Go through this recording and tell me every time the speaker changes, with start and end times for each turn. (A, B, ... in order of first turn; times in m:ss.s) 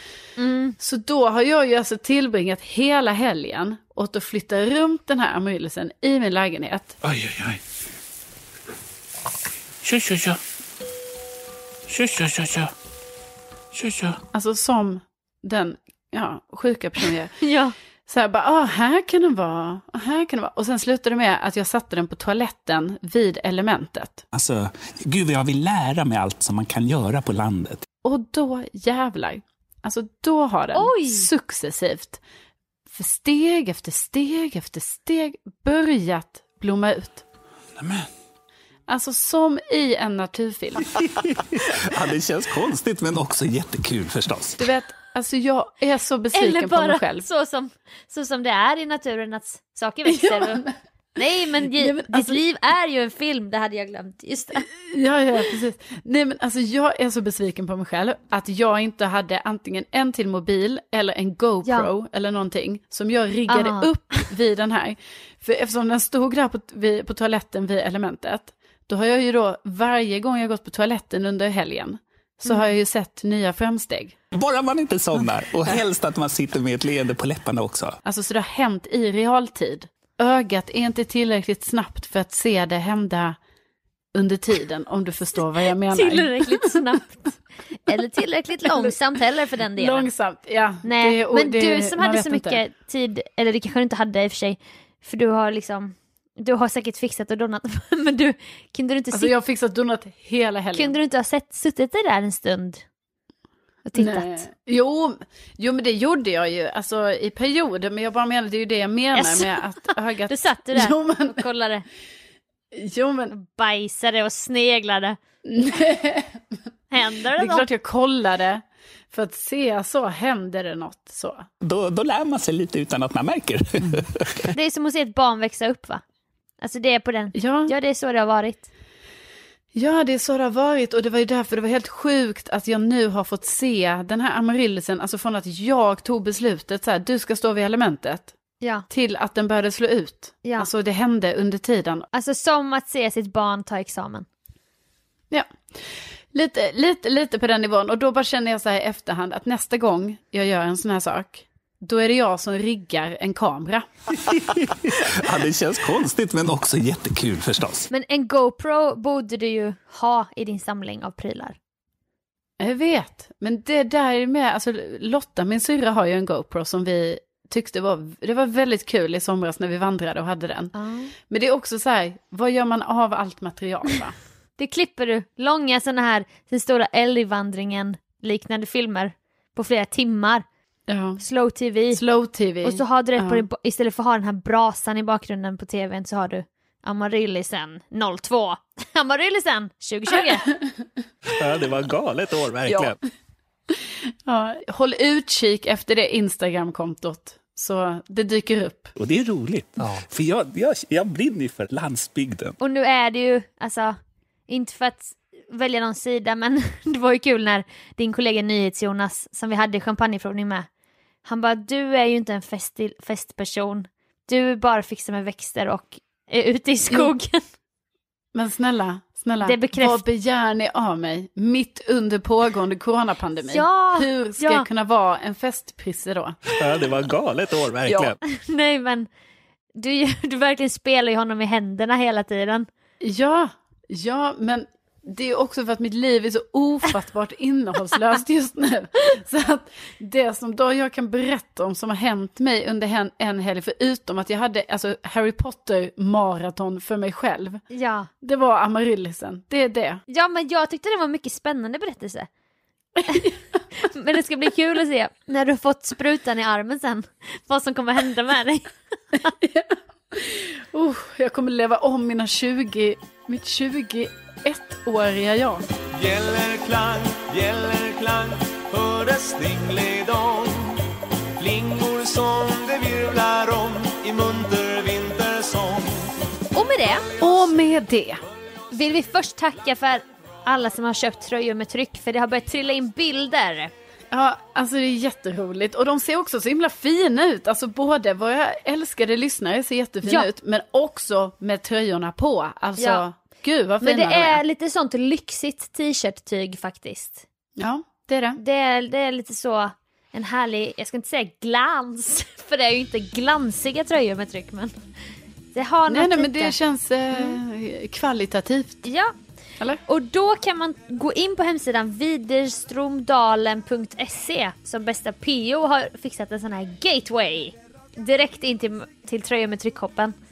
0:00.4-0:00.8 A
0:00.8-0:07.0 B
0:07.0-0:07.6 C
0:09.8-0:10.4 C
0:11.9-0:12.7 C
0:13.7-0:14.2 C
0:14.3-0:17.4 B
0:17.4-0:17.8 A
0:18.1-0:24.2 B
0:24.3-0:27.9 C
0:28.0-0:32.2 B
0:30.7-0:31.3 A
0:32.9-0:37.2 B
0:37.8-0:38.1 C
0:38.9-0:40.9 B
0:40.8-0:44.7 C
0:44.6-0:47.3 B
0:46.3-0:50.6 A
0:50.1-0:50.8 B
0:51.2-0:54.7 A
0:51.7-0:52.4 B
0:54.7-1:14.2 B
1:03.5-1:04.3 A
1:12.5-1:12.7 A
1:14.3-1:18.0 C
1:18.0-1:23.4 B
1:24.1-1:26.9 B
1:25.8-1:30.1 A
1:28.6-1:29.0 B
1:29.8-1:32.6 B
1:30.8-1:39.3 A
1:39.1-1:40.9 B
1:40.7-1:42.8 A
1:43.9-1:44.4 A
1:43.9-1:51.4 B
1:49.1-1:51.9 A
1:52.7-1:53.3 B
1:53.3-1:55.2 A
1:55.4-1:56.6 B
1:56.9-1:57.7 A
1:57.3-2:01.5 B
2:01.6-2:04.5 C
2:04.5-2:06.0 A
2:06.6-2:08.7 A
2:07.3-2:07.7 B
2:09.7-2:18.3 B
2:18.9-2:22.1 B
2:20.4-2:20.7 A
2:22.1-2:24.3 A
2:25.3-2:33.9 B
2:34.1-2:37.9 C
2:37.9-2:41.6 A
2:42.6-2:50.7 B
2:50.7-2:51.1 A
2:51.3-2:54.1 B
2:54.6-3:00.4 A
3:00.9-3:01.2 B
3:01.2-3:02.0 A
3:01.9-3:03.4 B
3:02.6-3:10.5 A
3:10.2-3:10.7 B
3:11.3-3:13.0 C
3:13.7-3:18.9 B
3:19.0-3:22.6 C
3:22.6-3:23.9 A
3:24.5-3:30.7 A
3:31.2-3:37.4 A
3:38.3-3:46.6 B
3:39.4-3:40.0 A
3:43.5-3:44.6 A
3:46.5-3:48.2 C
3:47.9-3:48.2 B
3:48.3-3:49.1 A
3:49.8-3:52.7 A
3:53.0-4:07.6 B
4:07.7-4:08.1 A
4:08.2-4:10.0 B
4:10.1-4:12.3 A
4:13.0-4:13.4 B
4:13.1-4:19.3 A
4:19.2-4:25.7 B
4:25.9-4:30.8 D
4:31.4-4:36.1 D
4:36.5-4:37.1 A
4:37.2-4:38.2 B
4:38.7-4:43.7 A
4:44.1-4:54.4 B
4:52.8-4:53.0 A
4:53.8-4:57.2 A
4:57.6-4:58.4 B
4:58.4-5:04.7 A
5:05.6-5:06.6 A
5:05.9-5:08.8 B
5:07.1-5:07.4 A
5:08.8-5:09.1 A
5:09.8-5:20.1 A